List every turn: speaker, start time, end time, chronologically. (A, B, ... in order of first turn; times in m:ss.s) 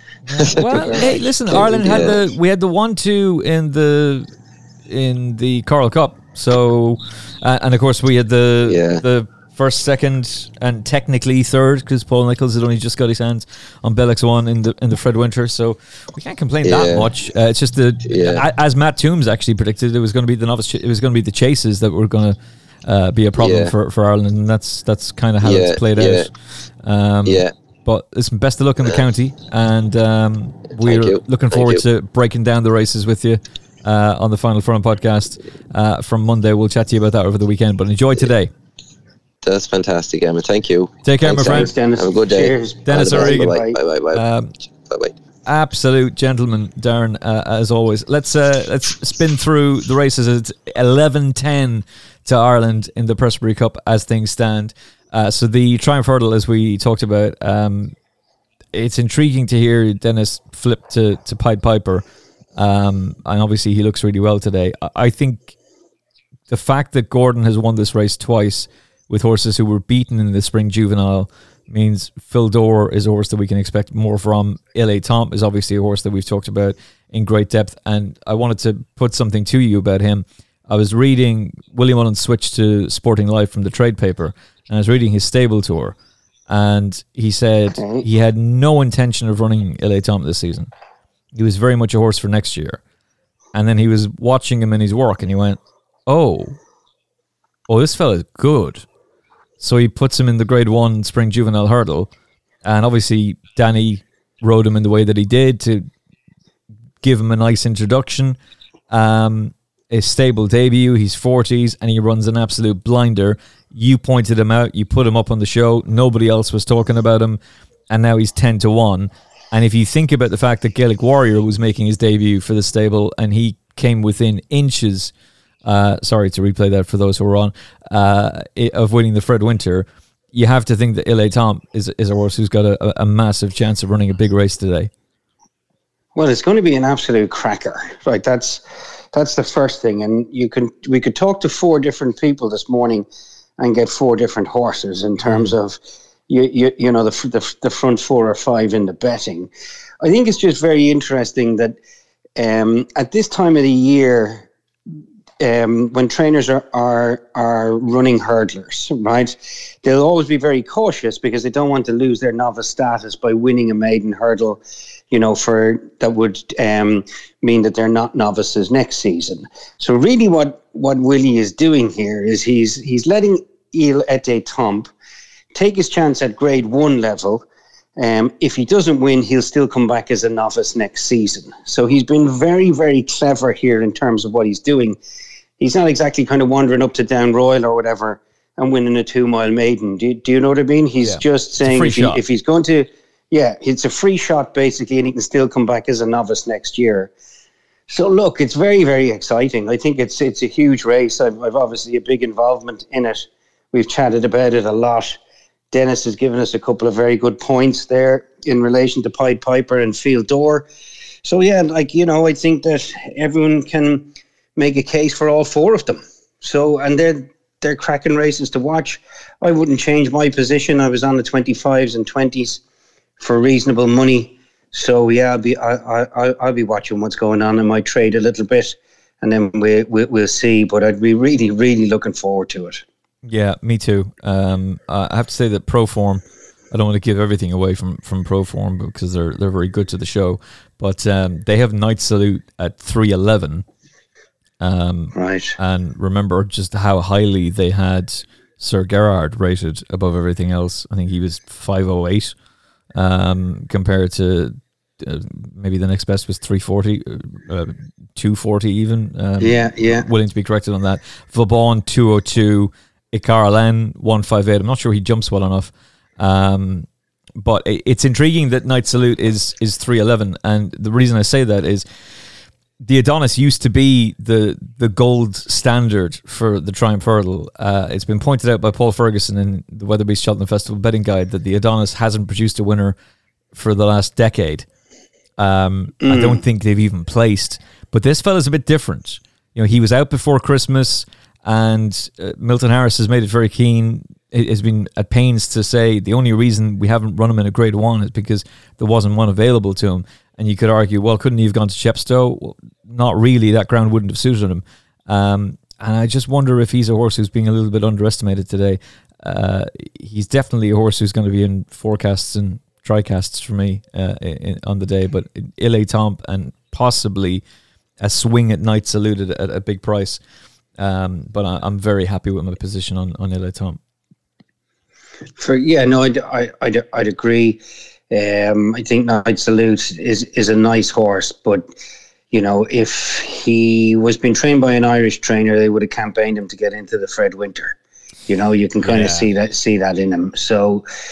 0:00.3-0:04.3 A
0:00.3-0:02.2 B
0:00.8-0:02.1 C
0:04.9-0:26.3 A
0:08.7-0:09.0 B
0:16.6-0:17.1 B
0:18.1-0:18.4 B
0:23.4-0:23.7 B
0:25.4-0:26.3 B
0:26.8-0:38.5 A
0:27.2-0:27.5 B
0:30.8-0:31.8 B
0:39.4-0:44.2 B
0:41.0-0:41.7 A
0:41.3-0:43.8 C
0:42.9-0:44.5 A
0:44.8-0:45.2 B
0:45.5-0:58.0 A
0:58.7-1:02.0 A
1:02.6-1:05.5 A
1:06.5-1:26.0 A
1:26.5-1:30.7 A
1:27.8-1:28.1 C
1:31.3-1:32.8 A
1:33.5-1:36.6 A
1:37.7-1:38.8 A
1:39.6-1:42.1 A
1:42.6-1:45.9 A
1:47.0-1:48.4 A
1:48.9-1:57.4 A
1:57.9-2:05.1 A
2:05.6-2:14.9 A
2:16.2-2:18.6 C
2:19.1-2:23.1 C
2:23.6-2:29.5 C
2:25.2-2:25.5 A
2:30.0-2:31.8 C
2:32.4-2:34.5 C
2:35.4-2:54.9 C
2:55.5-2:57.5 C
2:58.0-3:05.0 C
3:05.6-3:17.1 C
3:11.0-3:12.2 A
3:17.9-3:25.2 C
3:25.7-3:30.7 C
3:31.2-3:42.6 C
3:43.2-3:52.8 C
3:53.2-4:03.6 A
4:04.6-4:12.3 A
4:05.2-4:05.6 C
4:13.0-4:26.9 A
4:19.4-4:20.1 C
4:27.4-4:31.8 A
4:32.8-4:43.0 A
4:43.5-4:44.7 A
4:45.4-5:17.4 A
4:46.0-4:46.4 C
5:18.0-5:20.2 A
5:20.8-5:23.8 A
5:25.4-5:31.7 C
5:32.3-5:37.8 C
5:38.3-5:40.8 C
5:38.8-5:39.3 A